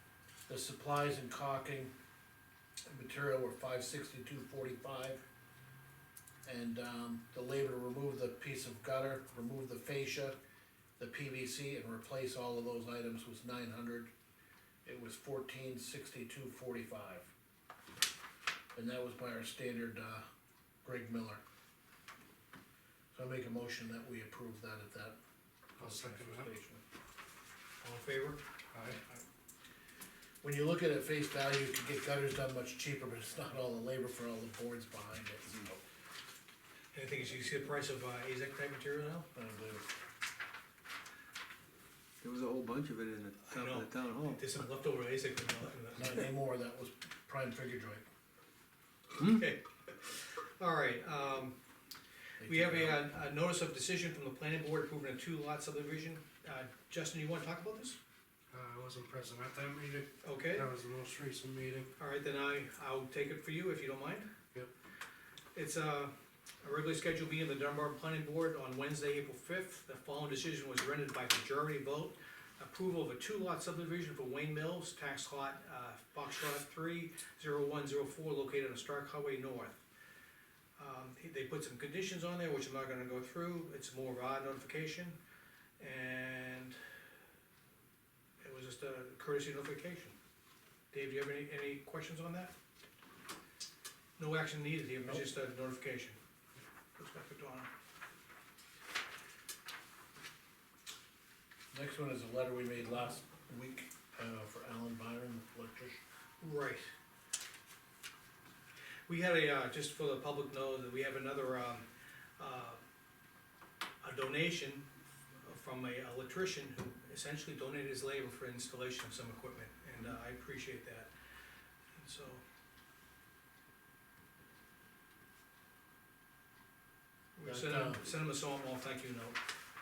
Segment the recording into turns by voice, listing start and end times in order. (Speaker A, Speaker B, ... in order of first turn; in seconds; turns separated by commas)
Speaker A: 0.5-1.9, Speaker A: 2.9-5.2, Speaker A: 6.5-10.4, Speaker A: 11.0-14.1, Speaker A: 14.8-17.3, Speaker A: 18.7-20.2, Speaker A: 20.8-21.4, Speaker A: 23.1-25.1, Speaker B: 25.8-26.5, Speaker A: 25.8-26.8, Speaker C: 27.8-29.2, Speaker B: 28.7-29.0, Speaker A: 30.4-35.8, Speaker C: 36.9-39.3, Speaker A: 39.3-39.8, Speaker D: 42.2-44.5, Speaker C: 43.5-46.2, Speaker A: 45.9-48.0, Speaker C: 49.1-51.5, Speaker A: 52.4-53.0, Speaker C: 52.4-58.0, Speaker B: 58.5-61.9, Speaker C: 60.2-60.7, Speaker C: 62.0-64.3, Speaker C: 65.5-79.8, Speaker C: 80.8-85.2, Speaker C: 85.8-86.8, Speaker C: 88.4-90.1, Speaker C: 90.9-92.5, Speaker C: 94.2-96.2, Speaker A: 95.0-95.3, Speaker C: 97.0-97.7, Speaker A: 101.7-106.0, Speaker C: 106.4-106.8, Speaker C: 109.1-111.8, Speaker C: 112.4-112.8, Speaker C: 114.0-114.8, Speaker C: 115.4-121.1, Speaker C: 122.0-122.4, Speaker C: 127.3-129.4, Speaker A: 127.4-128.1